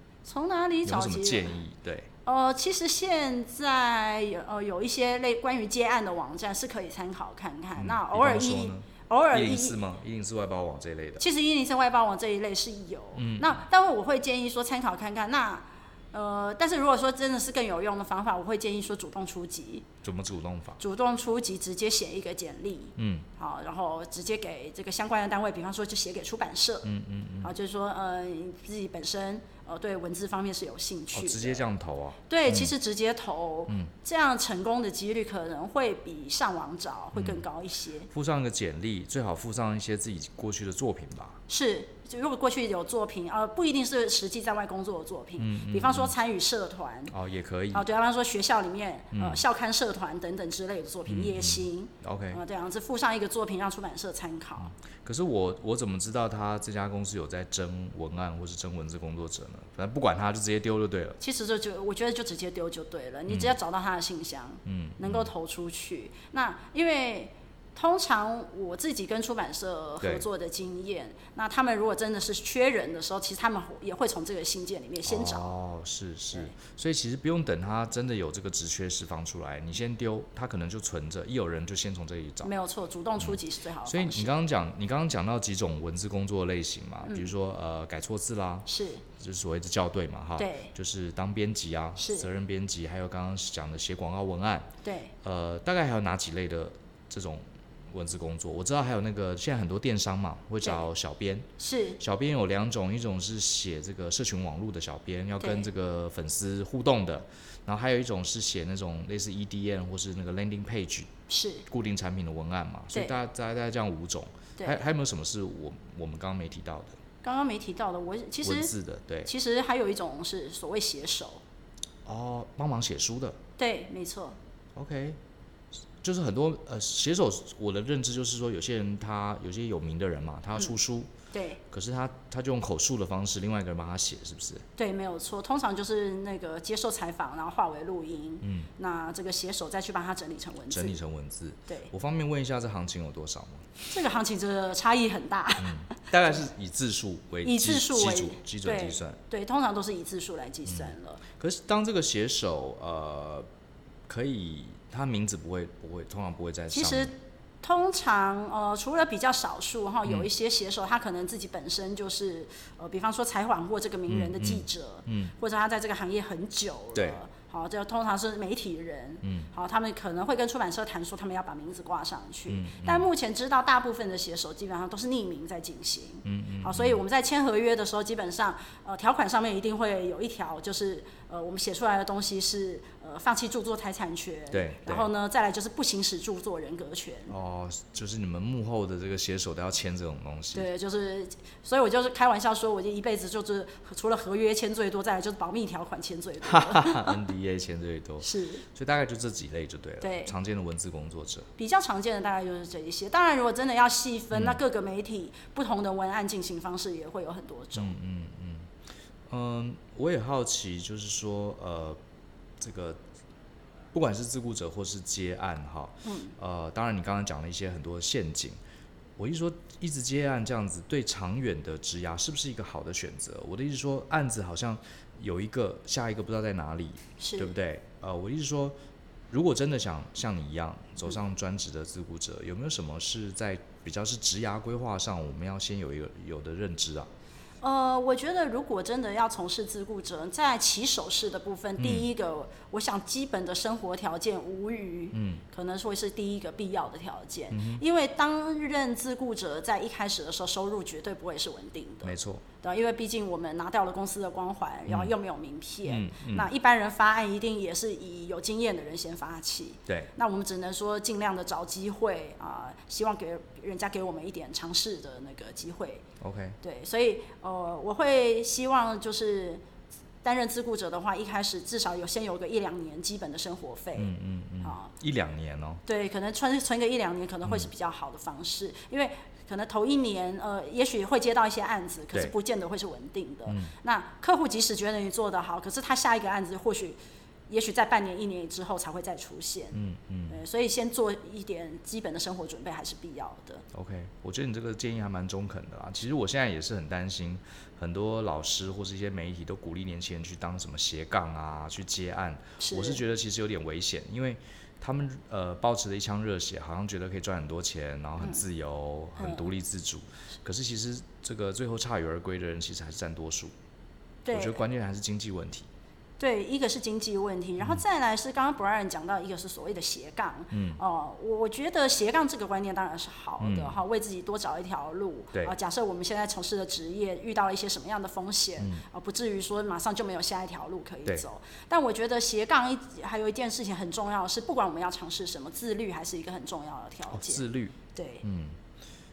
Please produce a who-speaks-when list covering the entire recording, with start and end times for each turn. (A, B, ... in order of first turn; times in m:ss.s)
0:00.2-0:01.6 A
0:00.9-0:02.1 B
0:02.2-0:09.8 A
0:07.8-0:11.2 B
0:11.2-0:19.9 A
0:13.2-0:13.6 B
0:20.0-0:20.8 B
0:20.8-0:26.9 A
0:23.0-0:23.3 B
0:26.8-0:27.5 B
0:27.4-0:31.6 A
0:31.1-0:32.7 B
0:32.3-0:38.1 A
0:37.1-0:37.4 B
0:38.1-0:41.4 B
0:41.5-0:47.1 A
0:45.4-0:46.1 B
0:47.1-0:47.9 B
0:47.7-0:54.8 A
0:49.1-0:49.4 B
0:51.1-0:52.4 B
0:54.7-1:01.2 B
1:01.2-1:15.5 A
1:03.3-1:03.6 B
1:04.6-1:05.3 B
1:10.0-1:10.3 B
1:15.0-1:22.5 B
1:22.4-1:24.3 A
1:23.2-1:34.7 B
1:28.7-1:29.0 A
1:30.4-1:30.7 A
1:32.0-1:32.3 A
1:34.8-1:35.1 A
1:35.2-1:51.1 B
1:41.6-1:42.0 A
1:45.4-1:45.7 A
1:51.3-1:51.6 A
1:51.7-1:57.0 B
1:52.9-1:53.2 A
1:54.6-1:54.9 A
1:57.2-1:58.7 A
1:58.4-1:59.3 B
1:59.3-2:01.4 A
2:02.1-2:03.4 B
2:03.6-2:04.4 A
2:04.8-2:05.2 B
2:06.0-2:11.1 B
2:11.3-2:11.6 A
2:11.7-2:14.6 B
2:14.8-2:21.0 A
2:18.4-2:18.7 B
2:20.7-2:23.7 B
2:23.9-2:26.0 A
2:25.6-2:29.2 B
2:27.4-2:31.2 A
2:30.7-2:33.5 B
2:34.1-2:37.1 B
2:36.7-3:07.3 A
2:44.1-2:45.3 B
2:49.2-2:49.5 B
2:52.5-2:53.1 B
2:56.2-2:57.0 B
3:04.5-3:05.1 B
3:07.3-3:10.7 B
3:10.5-3:17.2 A
3:16.4-3:21.5 B
3:18.2-3:18.6 A
3:20.0-3:20.4 A
3:21.6-3:28.0 A
3:24.3-3:24.6 B
3:27.8-3:28.7 B
3:29.3-3:32.0 B
3:32.6-3:33.0 B
3:33.9-3:38.6 B
3:36.0-3:36.4 A
3:39.2-3:48.8 B
3:47.2-3:47.6 A
3:49.3-3:57.1 B
3:57.6-4:26.0 A
4:01.8-4:02.1 B
4:05.1-4:05.4 B
4:07.5-4:07.8 B
4:12.0-4:12.4 B
4:14.9-4:15.1 B
4:15.9-4:16.5 B
4:26.2-4:26.6 B
4:26.6-4:29.6 A
4:30.2-4:34.9 A
4:33.9-4:35.8 B
4:35.9-4:47.0 A
4:43.5-4:43.7 B
4:47.5-4:49.8 A
4:49.7-4:50.4 B
4:50.3-4:53.6 A
4:53.7-5:13.5 B
5:02.6-5:03.0 A
5:09.2-5:09.4 A
5:14.2-5:14.6 A
5:14.3-5:15.7 B
5:16.2-5:38.2 A
5:20.5-5:20.8 B
5:23.4-5:23.8 B
5:28.6-5:28.8 B
5:37.1-5:38.6 B